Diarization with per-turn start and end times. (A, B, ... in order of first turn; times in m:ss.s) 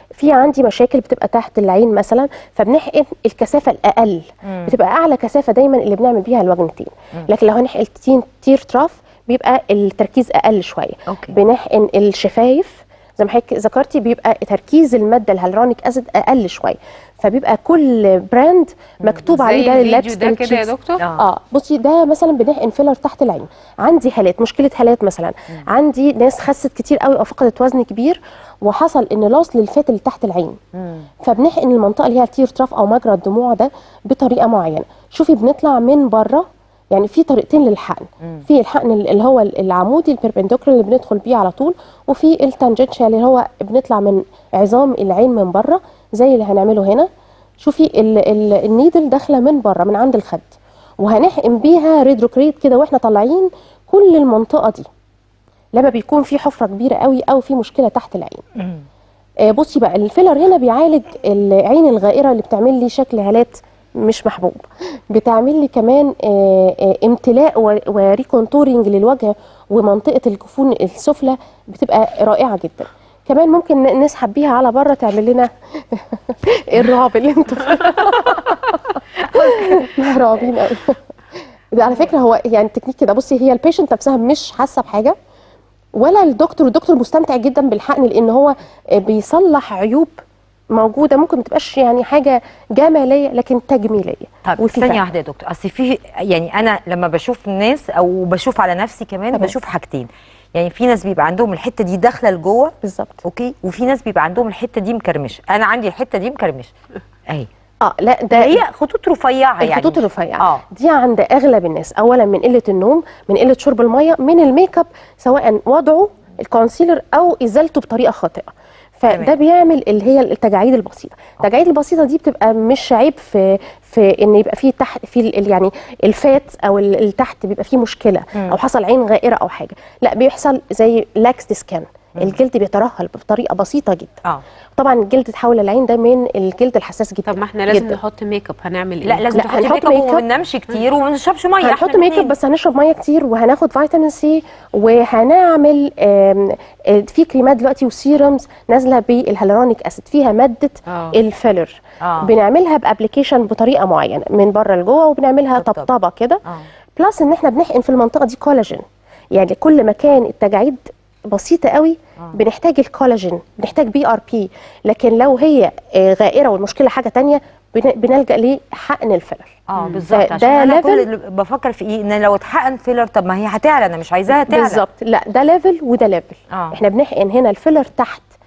0:00.2-0:30.6 A
0:04.4-0:04.7 B
0:11.1-0:11.4 B
0:19.2-0:21.0 C
0:21.0-0:21.2 B
0:30.7-0:31.1 B
0:31.2-0:47.1 A
0:47.6-0:54.9 A
0:55.7-0:58.4 A
0:59.4-1:21.0 A
1:18.3-1:18.5 B
1:19.2-1:19.9 B
1:21.7-1:25.1 A
1:25.9-1:35.0 A
1:34.4-1:46.7 B
1:42.8-1:43.2 A
1:47.8-1:48.6 A
1:48.3-1:50.6 B
1:49.6-2:14.2 A
1:59.1-1:59.4 B
2:14.8-2:18.0 A
2:17.3-2:19.4 C
2:19.0-2:22.3 B
2:19.3-2:20.2 A
2:21.6-2:36.4 A
2:30.9-2:31.2 C
2:32.0-2:32.3 B
2:35.6-2:35.9 B
2:37.0-2:49.6 A
2:49.7-2:54.8 B
2:49.8-2:50.0 C
2:50.1-2:51.1 A
2:54.3-2:58.3 A
2:56.5-2:56.8 B